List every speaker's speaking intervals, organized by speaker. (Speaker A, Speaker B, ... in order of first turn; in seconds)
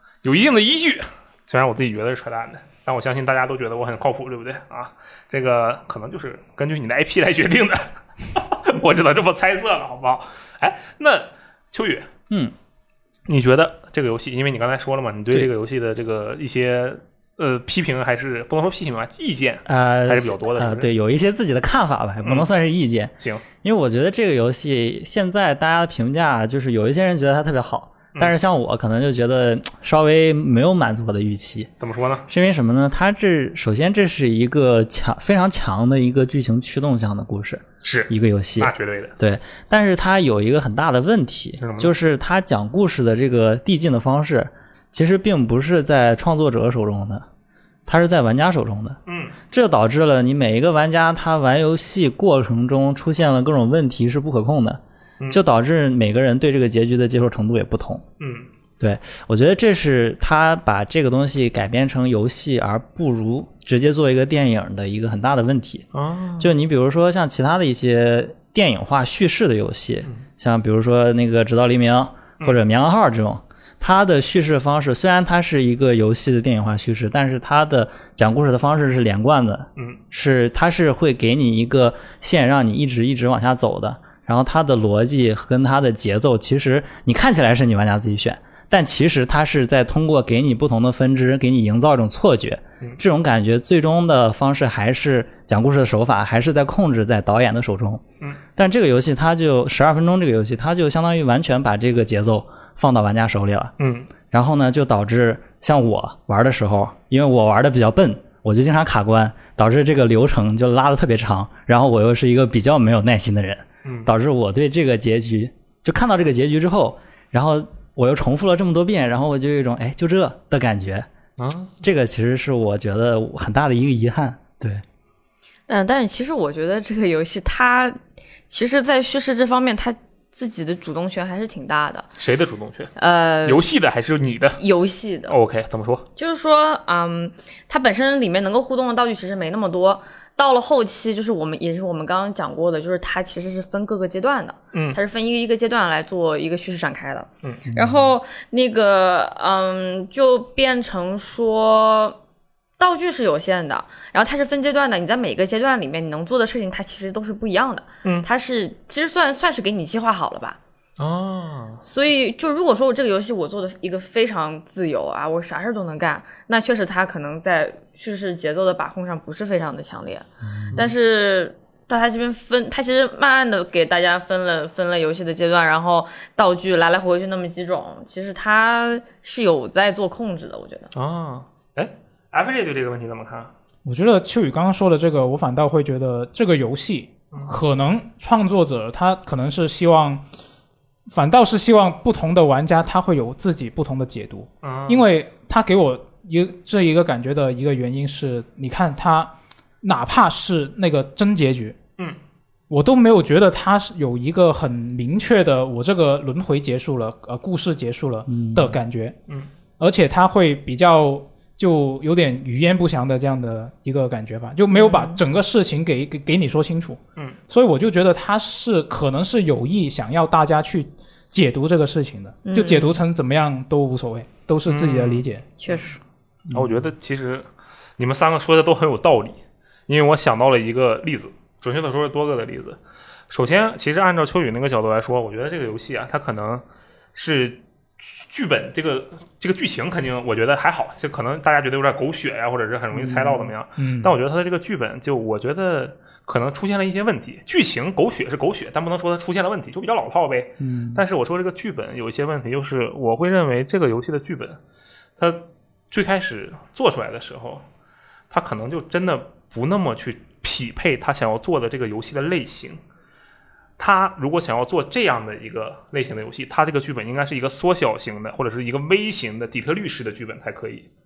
Speaker A: 0.2-12.1, 13.3-20.9, 23.2-23.4, 31.8-32.3, 37.8-39.1, 41.6-41.9, 49.1-49.4, 58.2-58.5, 65.9-66.5, 103.8-104.1, 121.4-121.8, 132.2-132.9, 133.4-134.6, 135.3-136.1, 144.7-145.0, 161.0-161.8, 180.9-183.5, 187.3-187.6, 194.6-195.1, 224.7-226.0, 226.5-227.5, 228.0-232.8, 233.3-236.6, 237.2-254.6, 255.2-257.6, 258.3-262.8, 263.8-270.9
Speaker B: 19.7-31.7, 32.3-47.3, 47.9-49.0, 49.5-58.0, 58.8-65.9, 66.4-98.0, 98.6-103.7, 104.3-121.1, 121.8-124.8, 147.7-148.1, 208.3-208.8, 243.0-243.5, 250.6-251.0
Speaker C: 125.7-132.1, 133.0-133.6, 134.6-135.4, 136.2-152.2, 152.8-160.6, 161.8-180.9, 214.7-215.2, 222.5-223.0, 225.6-226.0
Speaker D: 183.8-190.2, 191.1-201.8, 202.7-209.2, 209.8-217.0, 217.5-225.5, 243.8-244.1